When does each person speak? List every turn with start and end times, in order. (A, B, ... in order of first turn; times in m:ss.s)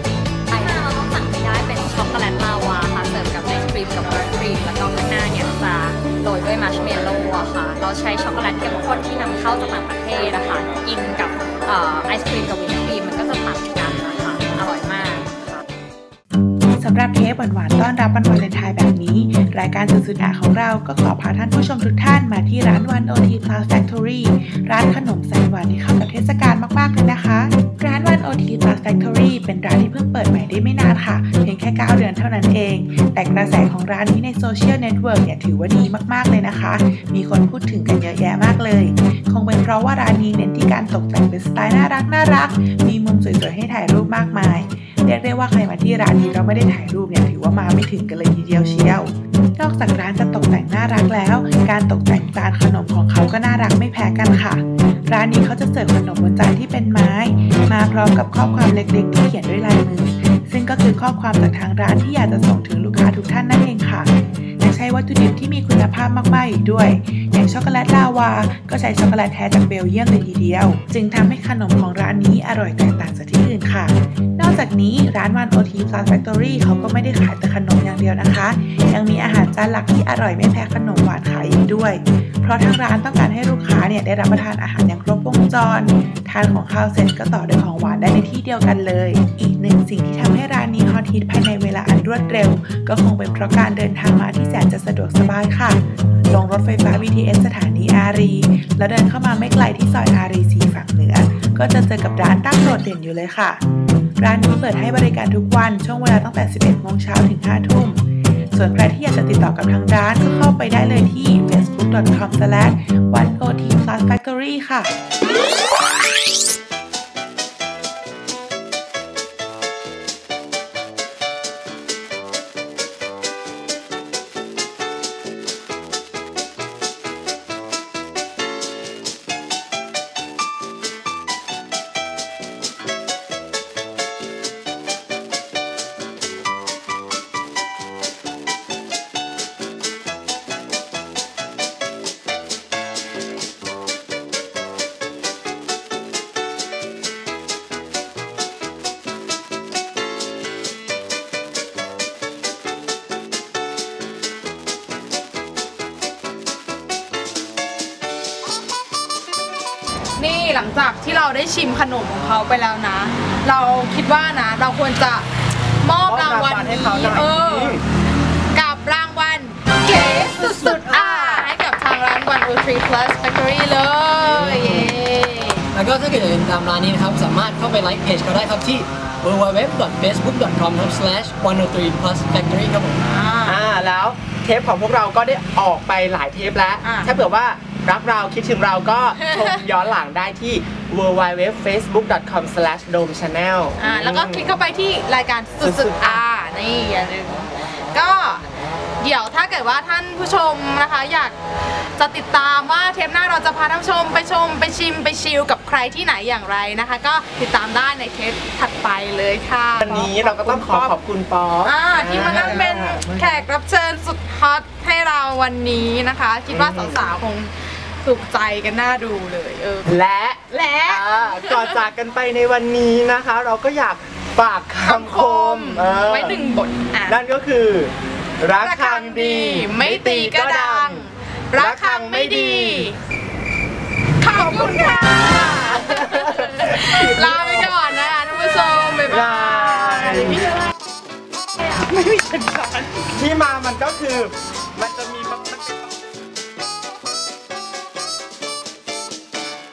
0:00.5-0:15.6 A
0:16.7-1:43.6 B
1:44.2-1:54.9 B
2:40.2-2:45.3 C
2:45.8-2:47.8 C
2:46.0-2:47.8 D
2:48.5-2:55.6 C
2:50.2-2:51.5 E
2:54.2-2:54.6 E
2:55.7-3:03.0 E
3:03.0-3:03.6 C
3:03.4-3:14.4 D
3:06.8-3:07.1 C
3:09.2-3:09.5 C
3:13.8-3:18.4 C
3:15.6-3:16.2 D
3:19.0-3:21.3 C
3:22.0-3:31.0 C
3:29.8-3:33.4 D
3:31.6-3:39.9 C
3:36.5-3:37.0 D
3:39.8-3:46.4 D
3:40.5-3:41.8 C
3:44.8-3:47.2 C
3:47.1-3:51.0 D
3:48.6-3:53.0 C
3:51.6-3:52.9 D
3:54.2-4:00.2 C
3:54.4-3:57.7 D
3:59.1-4:00.5 D
4:01.9-4:02.3 D
4:02.2-4:02.8 C
4:03.0-4:05.9 D